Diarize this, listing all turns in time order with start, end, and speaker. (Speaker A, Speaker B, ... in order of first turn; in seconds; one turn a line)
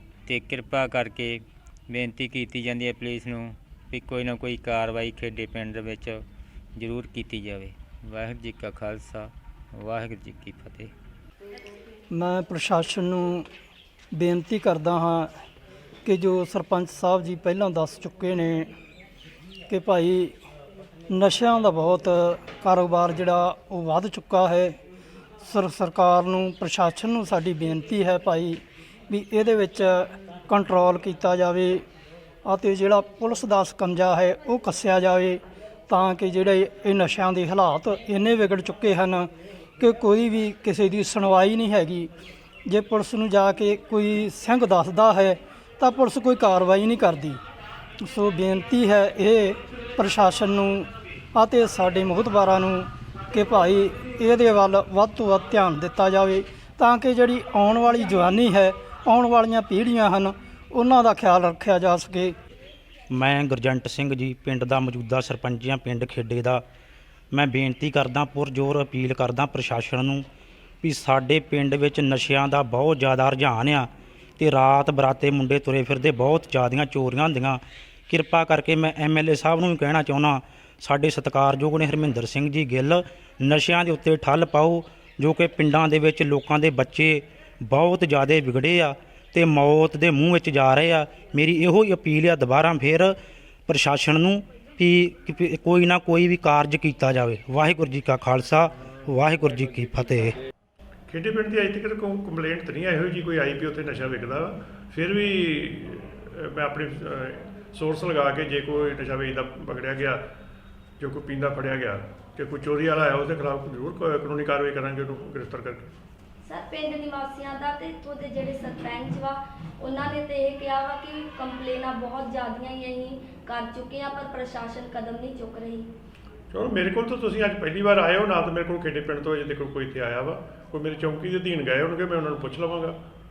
Speaker A: 0.2-6.2
Speaker A: 6.8-10.9
Speaker B: 12.1-13.5
Speaker B: 14.1-15.3
Speaker B: 16.0-18.7
Speaker B: 19.7-20.4
Speaker B: 21.1-24.8
Speaker B: 25.4-31.8
Speaker B: 32.4-42.1
Speaker B: 42.6-47.4
Speaker B: 48.0-62.4
Speaker C: 63.1-66.6
Speaker C: 67.3-70.2
Speaker C: 70.8-93.2
Speaker C: 93.7-100.3
Speaker D: 101.1-110.3
Speaker D: 111.0-115.9
Speaker E: 116.5-125.9
Speaker D: 126.5-133.0